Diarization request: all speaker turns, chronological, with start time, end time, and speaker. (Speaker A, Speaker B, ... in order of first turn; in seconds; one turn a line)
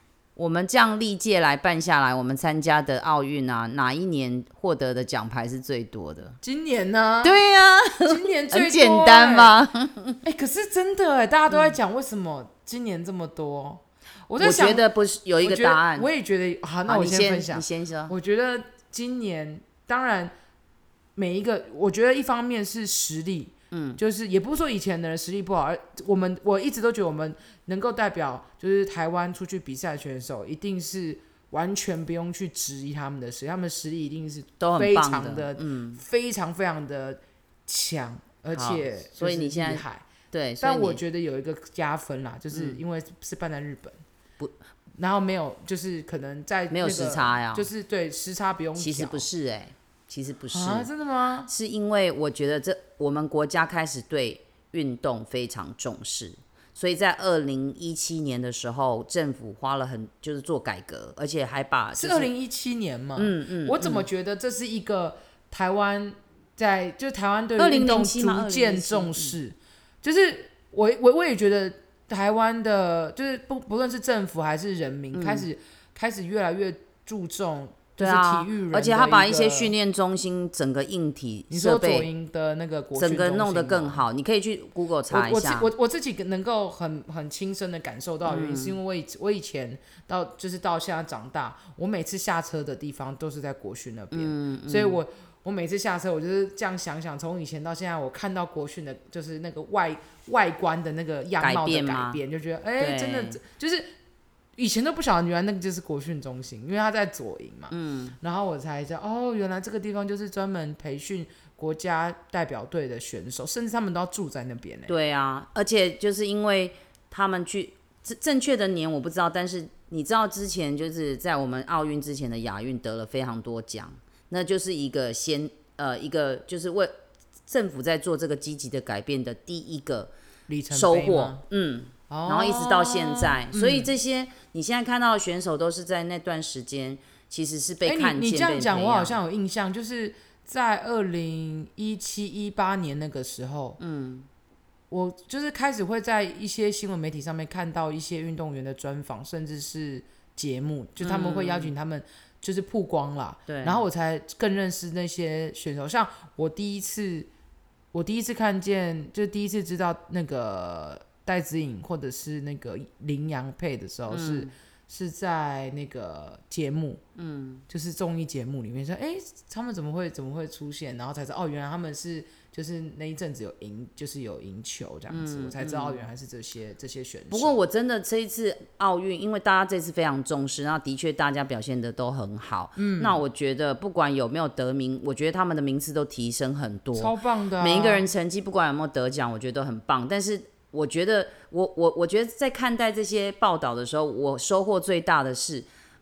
Speaker A: 0.4-6.4
Speaker B: 6.4-7.4
Speaker A: 7.2-10.2
Speaker B: 8.0-9.6
Speaker B: 10.2-14.9
Speaker A: 11.5-11.8
Speaker A: 14.4-16.1
Speaker B: 15.4-20.3
Speaker A: 16.9-18.1
Speaker B: 21.2-40.0
Speaker A: 23.7-24.0
Speaker A: 34.6-36.0
Speaker A: 38.5-41.0
Speaker B: 40.6-44.0
Speaker A: 42.5-42.8
Speaker B: 45.0-49.3
Speaker A: 46.7-47.7
Speaker A: 48.8-50.9
Speaker B: 50.5-51.5
Speaker A: 51.5-62.3
Speaker B: 62.0-79.7
Speaker A: 63.2-64.1
Speaker A: 67.6-69.4
Speaker A: 75.1-75.5
Speaker A: 78.0-82.1
Speaker B: 81.5-84.1
Speaker A: 83.0-85.7
Speaker B: 85.1-103.9
Speaker A: 88.3-88.8
Speaker A: 94.1-95.0
Speaker A: 101.4-102.2
Speaker A: 102.8-103.4
Speaker B: 104.6-114.9
Speaker A: 107.7-108.2
Speaker A: 114.9-126.9
Speaker A: 127.5-130.1
Speaker B: 130.5-131.4
Speaker A: 130.7-139.2
Speaker B: 132.1-133.9
Speaker B: 137.8-143.8
Speaker A: 143.8-144.3
Speaker B: 144.9-157.3
Speaker A: 151.0-151.7
Speaker A: 153.5-153.8
Speaker B: 157.9-167.0
Speaker A: 164.1-164.5
Speaker A: 167.2-167.6
Speaker B: 167.7-177.6
Speaker A: 175.1-176.0
Speaker A: 177.3-195.7
Speaker B: 182.8-183.2
Speaker B: 186.9-188.1